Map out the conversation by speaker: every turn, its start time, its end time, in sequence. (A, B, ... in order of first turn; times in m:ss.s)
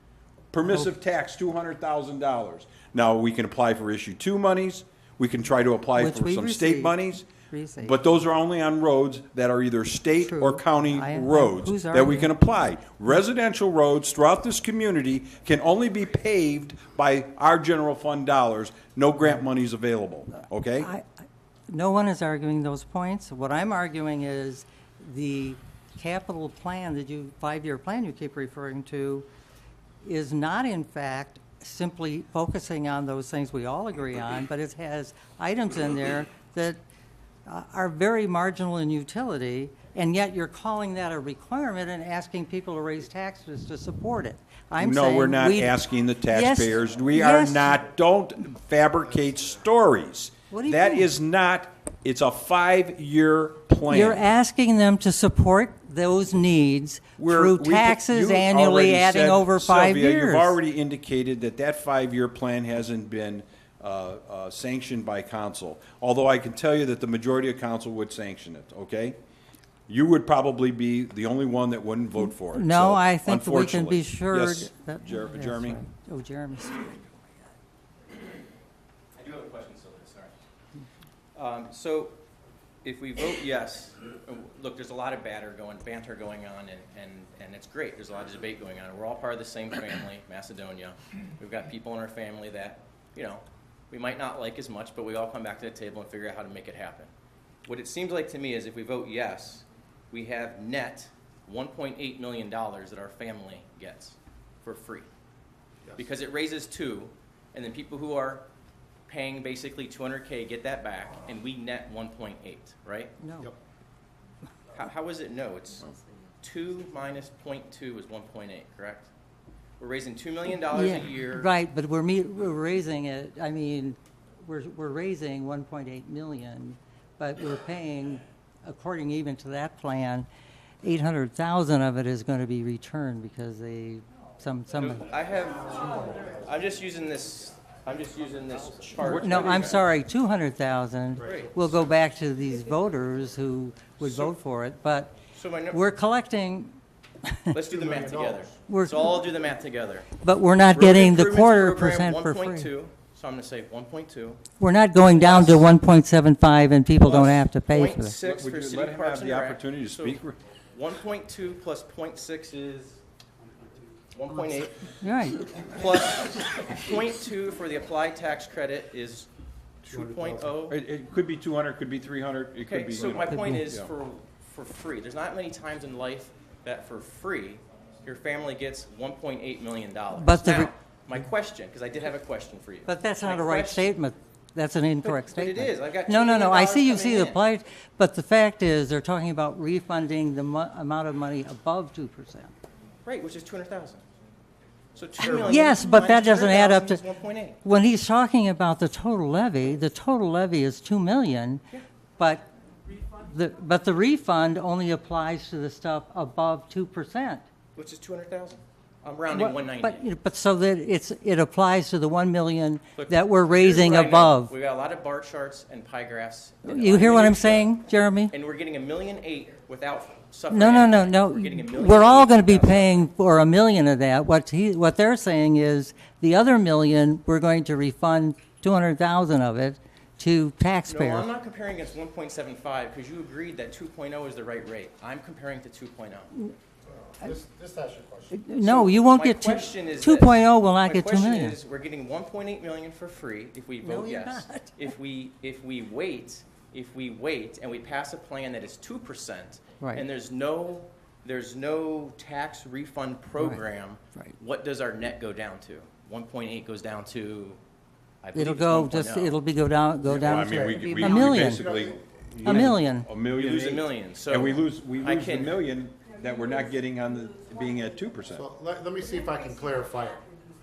0:00.5-0:07.3 A
0:00.6-0:00.9 B
0:05.9-0:08.0 B
0:07.8-0:20.9 A
0:10.2-0:12.6 B
0:20.8-0:29.3 B
0:30.0-0:36.8 B
0:37.4-0:47.7 B
0:44.8-0:54.2 A
0:50.5-0:51.1 B
0:53.9-1:00.6 B
0:57.2-1:09.2 A
1:09.9-1:15.8 A
1:12.3-1:17.5 B
1:19.1-1:20.3 C
1:21.3-1:22.2 C
1:22.8-1:37.1 C
1:37.6-1:45.1 C
1:46.0-1:48.4 C
1:49.1-1:53.1 C
1:53.2-1:53.5 B
1:54.7-1:55.9 C
1:56.4-1:59.1 C
1:59.8-2:01.5 C
2:00.6-2:10.3 B
2:10.8-2:15.0 B
2:14.8-2:19.8 C
2:19.0-2:19.8 A
2:19.1-2:25.1 B
2:21.2-2:21.5 D
2:21.2-2:21.5 C
2:24.0-2:24.3 C
2:25.3-2:25.8 C
2:25.7-2:27.5 B
2:27.5-2:30.1 C
2:27.7-2:28.5 D
2:28.6-2:29.3 B
2:30.1-2:32.7 B
2:30.7-2:34.4 C
2:34.6-2:38.2 B
2:35.1-2:35.7 C
2:37.0-2:40.2 C
2:38.2-2:40.4 A
2:40.7-2:43.0 C
2:44.1-2:44.9 C
2:45.0-2:45.5 B
2:45.5-2:49.3 C
2:49.8-2:50.5 D
2:49.8-2:50.8 C
2:50.7-2:53.9 A
2:52.6-3:03.9 C
2:53.2-2:53.7 B
3:00.1-3:00.7 B
3:02.8-3:12.5 B
3:05.0-3:07.4 C
3:13.0-3:14.0 C
3:14.9-3:17.6 C
3:15.2-3:17.0 B
3:17.6-3:21.6 B
3:22.2-3:22.4 B
3:23.2-3:27.4 B
3:27.8-3:30.0 C
3:29.3-3:34.5 B
3:32.9-3:37.7 C
3:36.6-3:38.3 B
3:38.3-3:43.0 C
3:40.5-3:51.3 B
3:50.9-3:56.3 C
3:56.9-3:58.4 D
3:58.3-4:01.6 B
3:58.6-4:17.6 C
4:03.8-4:04.9 B
4:09.8-4:10.0 B
4:18.2-4:19.4 C
4:18.3-4:21.6 B
4:20.0-4:22.6 D
4:20.1-4:28.5 A
4:22.4-4:23.1 B
4:23.3-4:25.6 C
4:28.3-4:30.2 D